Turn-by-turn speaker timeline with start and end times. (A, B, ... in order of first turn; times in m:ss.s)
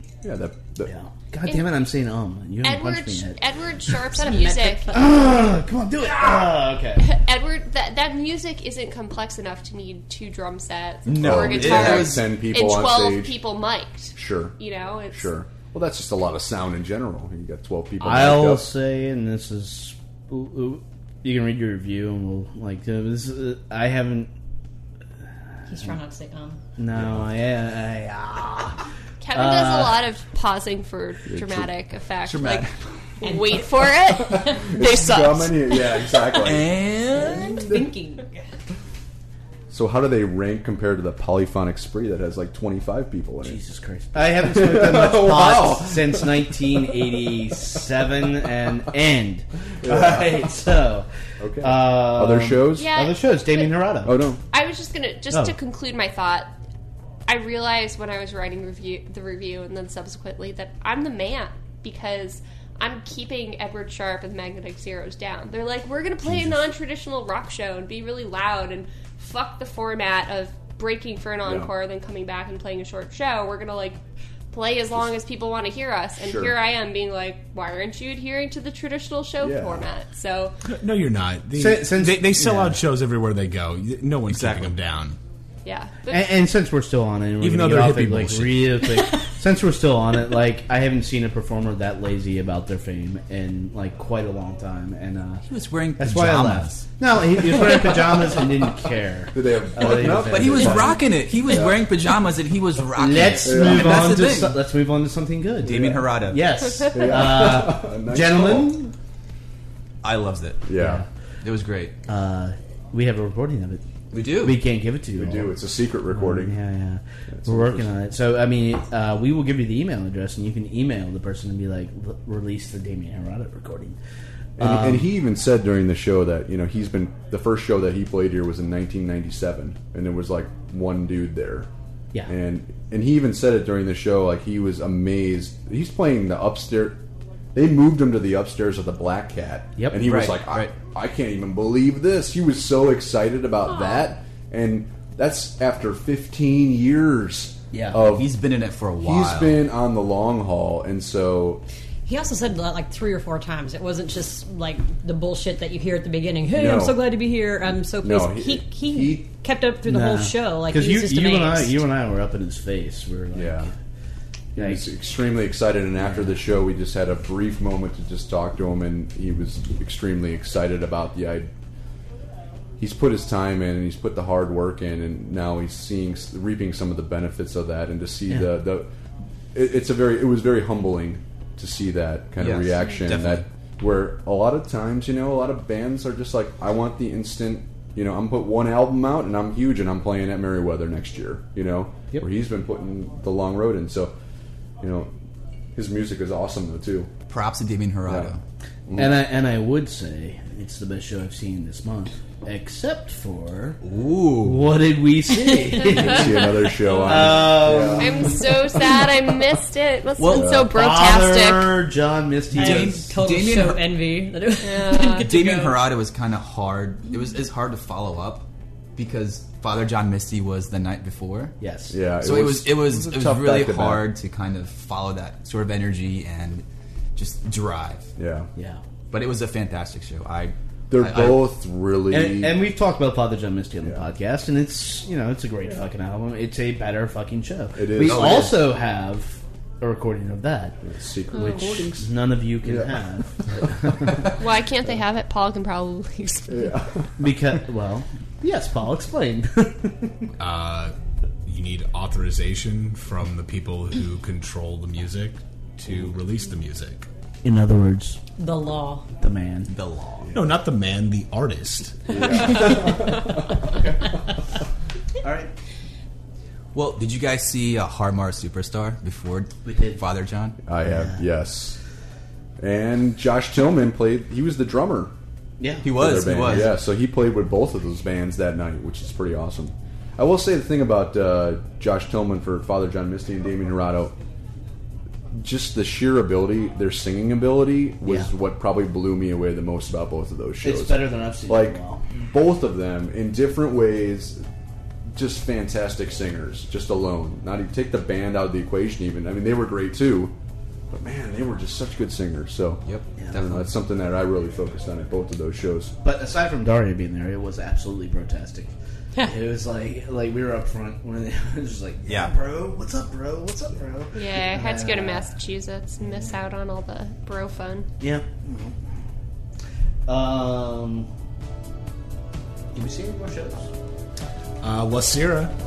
0:00.2-0:00.9 A
0:00.8-0:03.4 B
0:02.6-0:05.1 C
0:04.1-0:05.0 D
0:04.9-0:07.1 B
0:07.0-0:15.4 C
0:11.0-0:12.4 E
0:11.2-0:13.4 A
0:14.1-0:14.6 A
0:15.1-0:18.7 A
0:18.0-0:24.3 B
0:25.7-0:26.6 D
0:26.8-0:28.8 B
0:26.9-0:27.3 A
0:29.2-0:32.7 C
0:29.3-0:30.0 B
0:31.3-0:31.7 A
0:32.2-0:32.8 E
0:33.2-0:36.2 C
0:33.2-0:33.7 D
0:34.2-0:36.7 A
0:34.3-0:34.7 D
0:36.4-0:37.5 E
0:37.0-0:38.6 D
0:39.7-0:43.6 A
0:43.4-0:51.1 B
0:44.1-0:47.1 A
0:49.8-0:50.5 A
0:51.4-0:52.9 A
0:51.6-0:54.2 B
0:52.7-0:53.9 C
0:54.0-0:54.4 A
0:54.5-0:56.5 C
0:57.3-1:14.0 C
1:06.2-1:06.6 A
1:11.4-1:11.7 A
1:14.5-1:20.6 C
1:16.2-1:16.5 A
1:19.4-1:19.9 A
1:20.6-1:25.2 F
1:21.5-1:22.8 B
1:24.3-1:24.7 E
1:25.6-1:26.4 C
1:26.1-1:35.4 B
1:27.4-1:28.9 F
1:35.5-1:36.9 E
1:36.0-1:41.0 B
1:37.7-1:38.0 A
1:39.3-1:41.8 A
1:39.9-1:44.6 E
1:42.9-1:48.9 B
1:43.4-1:44.3 A
1:45.6-1:46.5 E
1:45.7-1:46.0 A
1:46.9-1:48.8 A
1:50.0-1:50.6 E
1:50.6-1:51.0 A
1:50.7-1:51.1 B
1:51.4-1:51.9 E
1:52.1-1:55.6 B
1:54.1-1:54.6 E
1:55.1-1:56.6 A
1:56.1-2:04.0 B
1:57.3-1:57.9 A
2:04.6-2:05.1 B
2:04.6-2:11.7 A
2:12.3-2:17.0 A
2:17.5-2:28.3 A
2:19.8-2:20.0 B
2:20.0-2:20.7 E
2:23.8-2:24.0 D
2:27.7-2:28.0 B
2:28.0-2:29.6 E
2:29.0-2:31.6 A
2:32.0-2:41.8 D
2:36.5-2:37.0 A
2:38.0-2:39.3 A
2:39.8-2:43.7 B
2:43.3-2:43.7 A
2:44.5-2:51.5 A
2:44.6-2:44.8 B
2:46.0-2:46.3 B
2:52.8-2:58.9 A
2:59.5-3:14.1 A
3:02.4-3:03.4 E
3:14.8-3:15.1 A
3:15.7-3:17.1 A
3:17.3-3:18.4 E
3:18.0-3:18.3 A
3:18.9-3:19.1 A
3:18.9-3:23.8 B
3:23.8-3:24.7 E
3:24.4-3:28.4 B
3:25.8-3:29.1 A
3:25.9-3:31.8 C
3:30.2-3:30.6 E
3:30.3-3:33.1 B
3:30.3-3:30.7 A
3:32.5-3:33.9 E
3:32.6-3:35.8 D
3:34.6-3:35.3 C
3:35.2-3:41.5 E
3:41.6-3:42.0 B
3:41.9-3:44.0 A
3:42.2-3:48.1 E
3:48.2-3:48.5 A
3:48.6-3:48.8 B
3:49.1-3:51.5 E
3:50.9-3:52.6 A
3:52.1-4:00.8 B
3:57.7-3:58.5 A
3:58.0-3:58.6 E
4:00.8-4:03.0 A
4:01.3-4:01.9 C
4:01.4-4:04.3 B
4:04.4-4:06.7 C
4:06.5-4:07.1 A
4:07.2-4:10.3 B
4:10.4-4:10.9 F
4:11.4-4:17.1 F
4:17.4-4:18.2 B
4:18.4-4:19.1 D
4:19.2-4:19.7 B
4:19.7-4:20.3 E
4:20.3-4:22.3 F
4:22.1-4:23.5 A
4:23.6-4:24.3 B
4:25.2-4:25.5 B
4:26.7-4:30.6 E
4:29.6-4:30.0 B
4:30.7-4:31.8 A
4:30.8-4:31.2 B
4:32.6-4:35.1 A
4:35.6-4:36.7 B
4:35.8-4:36.7 E
4:35.9-4:44.2 A
4:45.3-4:54.4 A
4:50.6-4:52.1 B
4:55.1-5:00.3 A
5:00.9-5:05.9 A
5:02.8-5:03.7 E
5:06.0-5:15.3 B
5:12.0-5:12.3 E
5:14.1-5:17.9 C
5:18.0-5:18.8 B
5:20.0-5:21.1 B
5:22.7-5:23.7 B
5:24.6-5:25.5 F